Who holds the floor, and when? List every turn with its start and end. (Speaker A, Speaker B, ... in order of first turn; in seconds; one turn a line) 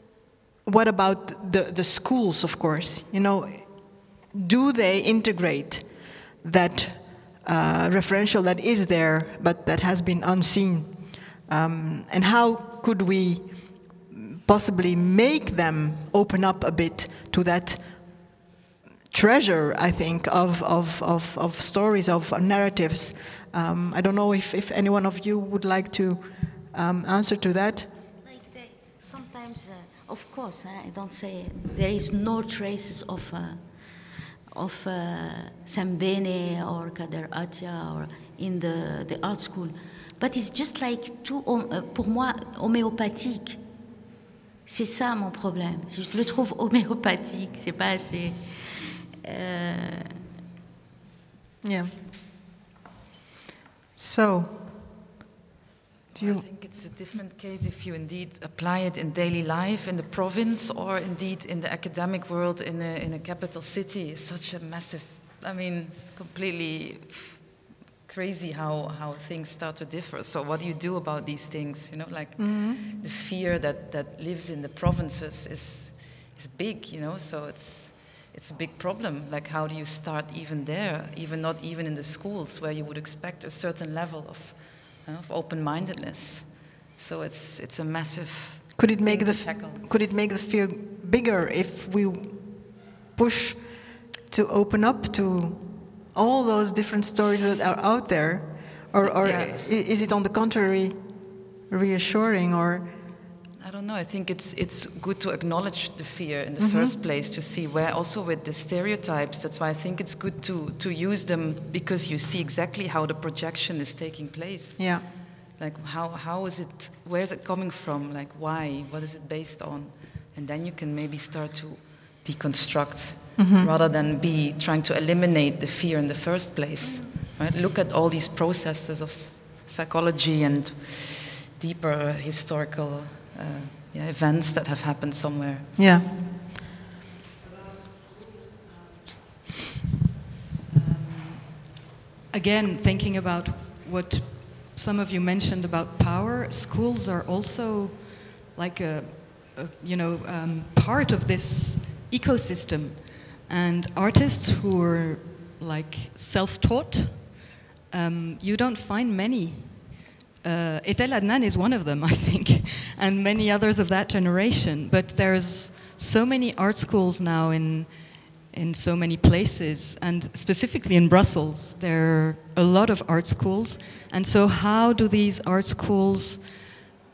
Speaker A: 0.7-5.9
Speaker A: 6.4-18.2
Speaker A: 19.1-27.9
Speaker B: 28.2-33.6
Speaker B: 34.5-43.6
Speaker B: 44.7-50.1
Speaker A: 51.6-51.9
Speaker A: 54.0-54.6
Speaker C: 56.1-89.8
Speaker A: 56.2-56.5
Speaker A: 72.4-72.8
Speaker A: 88.8-102.9
Speaker C: 99.0-99.6
Speaker C: 103.6-135.7
Speaker A: 106.6-107.0
Speaker A: 114.8-115.1
Speaker A: 123.4-123.7
Speaker A: 135.8-136.1
Speaker D: 137.6-138.6
Speaker D: 140.7-141.8
Speaker D: 142.3-176.7